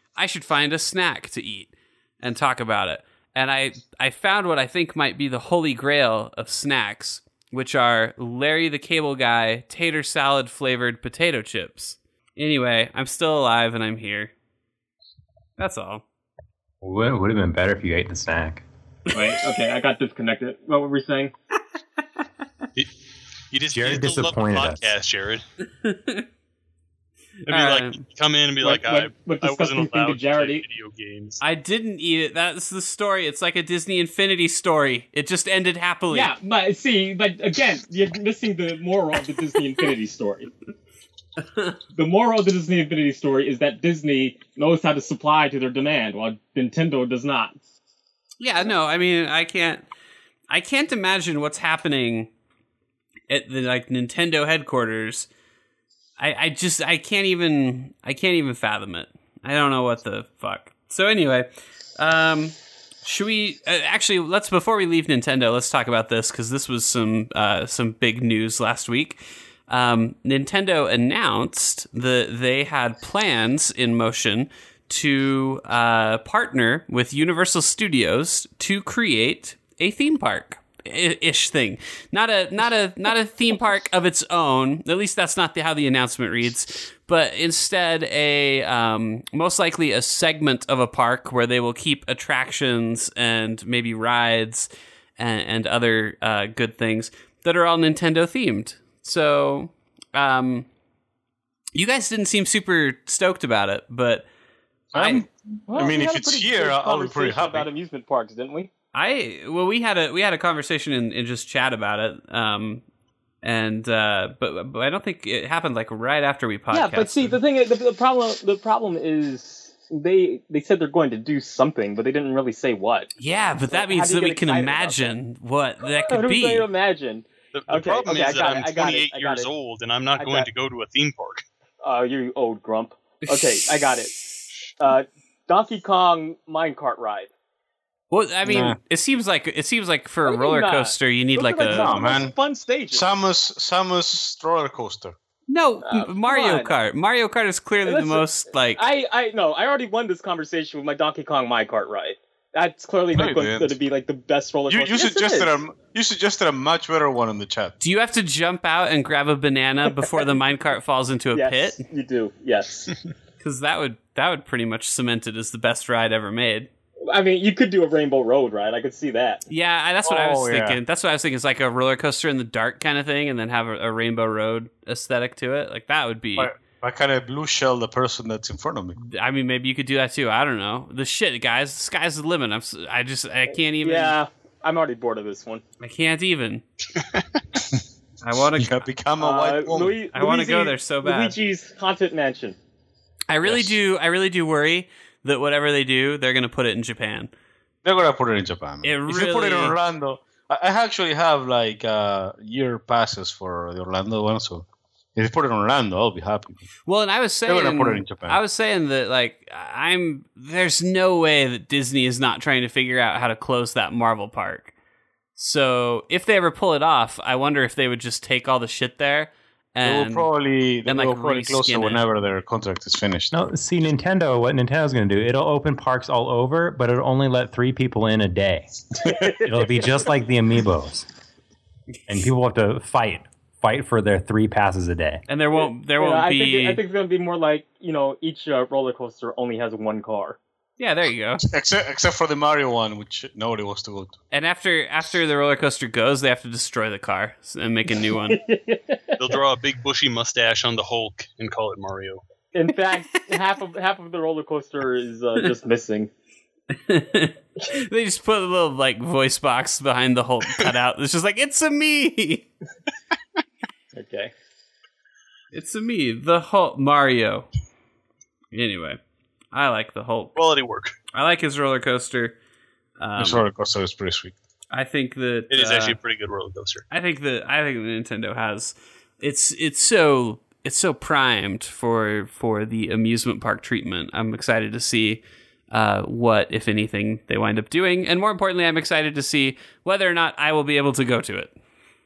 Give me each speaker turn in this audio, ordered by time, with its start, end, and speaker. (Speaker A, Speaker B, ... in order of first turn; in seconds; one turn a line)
Speaker A: 0.2-14.3
Speaker A: 15.6-16.0
Speaker B: 16.8-18.6
Speaker C: 19.1-21.3
Speaker D: 23.5-25.4
Speaker B: 23.7-24.9
Speaker A: 25.8-26.3
Speaker A: 27.5-28.0
Speaker D: 27.5-31.4
Speaker C: 28.6-30.6
Speaker A: 31.4-36.3
Speaker C: 36.1-40.5
Speaker C: 41.9-47.6
Speaker A: 48.4-49.9
Speaker A: 50.5-52.3
Speaker A: 53.3-55.3
Speaker A: 56.2-100.7
Speaker A: 101.8-104.3
Speaker E: 104.9-107.7
Speaker A: 105.0-105.2
Speaker C: 105.7-108.7
Speaker A: 108.9-112.8
Speaker A: 113.4-117.4
Speaker C: 116.7-123.1
Speaker A: 123.2-126.7
Speaker C: 123.7-125.2
Speaker C: 125.8-129.5
Speaker D: 127.5-131.4
Speaker C: 130.2-130.5
Speaker C: 131.8-134.2
Speaker A: 133.2-133.8
Speaker C: 134.8-137.3
Speaker A: 138.1-142.0
Speaker E: 138.4-138.8
Speaker C: 140.3-143.1
Speaker E: 141.7-142.3
Speaker E: 142.9-145.2
Speaker A: 145.5-148.8
Speaker C: 145.8-146.7
Speaker C: 147.8-148.2
Speaker C: 148.8-155.5
Speaker E: 153.1-153.8
Speaker E: 154.7-157.8
Speaker A: 157.8-161.8
Speaker C: 161.3-163.0
Speaker A: 163.4-166.7
Speaker C: 167.1-169.4
Speaker A: 169.5-176.5
Speaker E: 170.0-170.8
Speaker E: 176.4-179.0
Speaker A: 179.0-184.2
Speaker C: 183.8-185.6
Speaker A: 185.8-186.6
Speaker A: 188.2-188.8
Speaker E: 188.6-190.0
Speaker C: 189.2-192.6
Speaker A: 190.1-191.4
Speaker A: 193.3-197.3
Speaker E: 193.4-193.8
Speaker E: 197.8-206.7
Speaker A: 198.8-199.8
Speaker A: 206.9-214.7
Speaker E: 207.5-208.4
Speaker A: 215.4-220.3
Speaker E: 219.8-223.3
Speaker A: 220.8-222.0
Speaker B: 223.3-231.1
Speaker C: 229.1-229.9
Speaker B: 232.1-235.2
Speaker A: 235.3-236.8
Speaker C: 235.5-240.4
Speaker A: 240.8-241.5
Speaker E: 241.4-244.2
Speaker A: 244.3-248.4
Speaker C: 248.3-249.2
Speaker D: 249.2-252.2
Speaker C: 252.5-256.1
Speaker A: 256.7-262.5
Speaker C: 263.9-264.3
Speaker A: 265.5-267.5
Speaker A: 268.5-269.0
Speaker A: 269.5-270.4
Speaker D: 270.4-270.9
Speaker A: 271.1-272.4
Speaker A: 273.0-273.5
Speaker E: 273.2-274.3
Speaker A: 274.7-276.0
Speaker D: 275.5-276.9
Speaker A: 276.9-291.5